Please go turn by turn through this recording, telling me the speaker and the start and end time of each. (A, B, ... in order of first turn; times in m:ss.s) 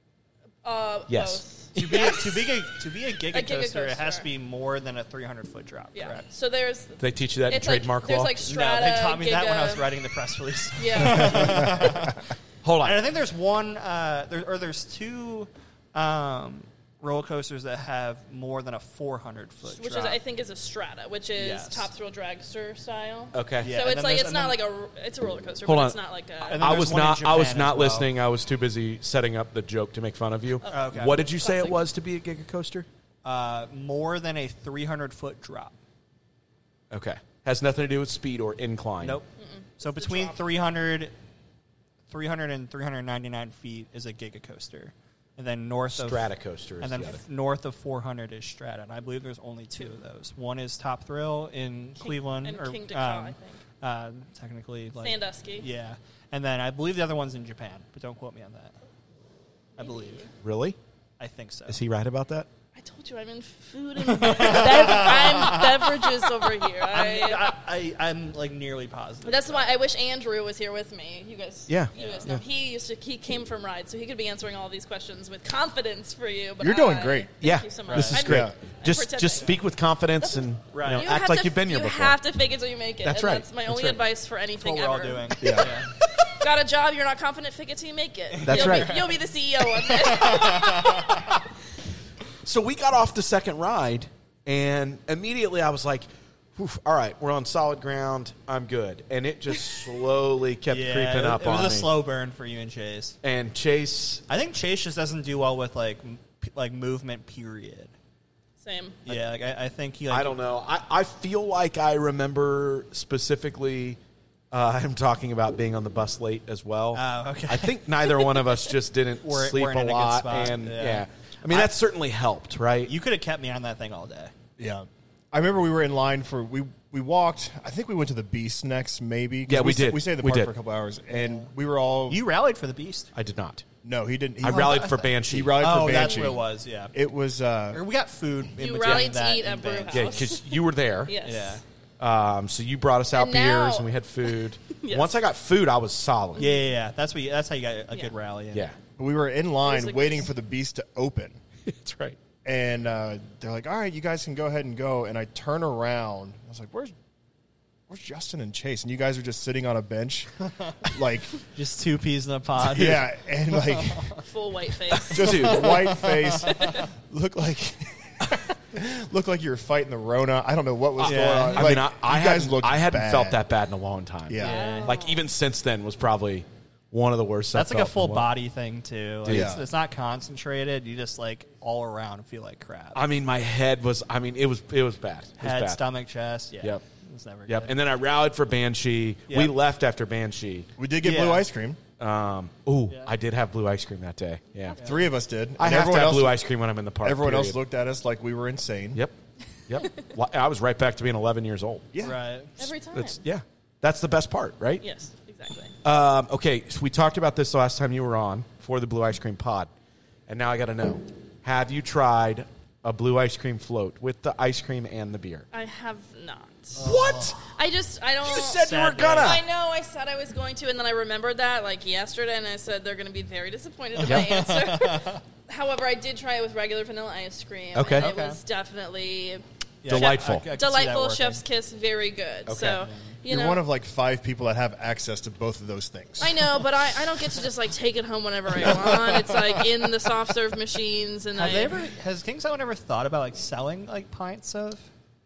0:00.6-0:02.5 A
0:01.1-0:02.0 B
0:01.8-0:06.3 C
0:03.3-0:04.3 A
0:06.0-0:09.9 A
0:07.0-0:08.4 B
0:08.4-0:12.2 C
0:10.8-0:11.8 A
0:12.6-0:13.1 B
0:12.8-0:20.2 C
0:19.7-0:26.7 A
0:21.4-0:21.9 C
0:23.3-0:23.7 B
0:23.6-0:24.6 C
0:25.6-0:26.0 B
0:26.4-0:28.1 C
0:26.6-0:32.9 B
0:30.6-0:31.8 A
0:30.7-0:31.3 C
0:33.2-0:35.8 C
0:36.9-0:39.2 B
0:39.0-0:39.3 C
0:39.4-0:40.4 A
0:39.8-0:41.1 C
0:42.1-0:58.7 C
0:45.9-0:47.2 B
0:52.0-0:53.6 A
0:55.0-0:55.7 A
0:59.8-1:00.2 C
0:59.8-1:00.3 A
1:00.4-1:00.8 B
1:01.2-1:01.8 C
1:01.7-1:02.5 B
1:02.8-1:07.5 A
1:04.1-1:09.8 C
1:09.2-1:19.6 A
1:11.7-1:12.4 B
1:12.0-1:12.2 C
1:16.6-1:17.3 D
1:17.4-1:22.2 B
1:17.9-1:18.3 C
1:18.2-1:18.5 D
1:20.7-1:21.1 C
1:21.0-1:25.6 A
1:23.0-1:24.0 B
1:24.6-1:25.9 C
1:25.4-1:25.7 D
1:26.3-1:31.3 A
1:28.4-1:29.2 C
1:28.4-1:29.0 B
1:29.7-1:31.3 C
1:32.4-1:41.9 B
1:40.7-1:43.2 C
1:43.2-1:44.2 B
1:44.3-1:47.9 C
1:48.6-1:49.0 A
1:49.1-1:50.4 C
1:50.1-1:54.0 B
1:54.5-2:02.9 B
1:56.9-1:57.8 C
1:59.2-2:01.7 C
2:02.8-2:04.3 C
2:04.6-2:12.2 D
2:09.5-2:10.5 B
2:11.1-2:11.5 C
2:12.1-2:13.1 C
2:13.2-2:13.6 B
2:13.8-2:17.8 D
2:14.4-2:16.0 B
2:14.5-2:14.9 C
2:15.6-2:16.9 C
2:17.7-2:20.3 C
2:18.6-2:20.4 A
2:18.8-2:19.1 B
2:19.9-2:21.2 B
2:21.1-2:21.6 A
2:21.2-2:21.6 C
2:22.0-2:26.5 B
2:23.1-2:23.9 A
2:24.7-2:25.2 A
2:26.4-2:26.6 A
2:26.4-2:28.7 C
2:28.5-2:28.8 B
2:29.0-2:31.4 D
2:29.6-2:30.3 A
2:31.6-2:32.2 B
2:32.4-2:36.9 D
2:37.9-2:41.4 D
2:41.5-2:44.2 C
2:42.6-2:44.2 D
2:44.2-2:45.5 A
2:45.1-2:45.8 B
2:45.1-2:53.4 D
2:45.2-2:46.6 C
2:46.5-2:46.9 A
2:51.0-2:58.3 B
2:51.0-2:51.8 C
2:54.3-2:54.8 D
2:54.4-2:55.0 C
2:54.4-2:55.2 A
2:57.5-3:03.0 C
2:59.2-2:59.5 B
2:59.3-2:59.7 D
3:02.9-3:05.8 B
3:05.4-3:07.8 C
3:07.5-3:10.7 B
3:09.3-3:09.6 C
3:10.8-3:11.8 D
3:11.0-3:11.5 C
3:12.0-3:14.8 B
3:14.8-3:15.1 C
3:14.8-3:16.4 D
3:15.6-3:17.6 B
3:17.0-3:19.0 D
3:19.7-3:21.9 B
3:21.9-3:22.2 D
3:22.0-3:22.5 C
3:22.6-3:23.2 A
3:22.6-3:24.8 B
3:24.8-3:25.7 A
3:25.8-3:29.7 B
3:30.3-3:35.5 B
3:35.5-3:36.8 A
3:36.8-3:37.4 C
3:36.8-3:37.4 B
3:37.5-3:38.6 A
3:38.2-3:39.4 B
3:38.4-3:39.4 C
3:39.2-3:53.6 A
3:44.0-3:45.2 C
3:44.0-3:44.4 B
3:47.7-3:48.1 B
3:48.0-3:48.4 C
3:49.8-3:51.4 C
3:49.9-3:50.5 B
3:52.5-3:52.8 B
3:52.8-3:53.2 C
3:53.3-3:56.6 D
3:56.2-4:01.7 A
3:58.7-3:59.6 C
4:01.4-4:04.8 C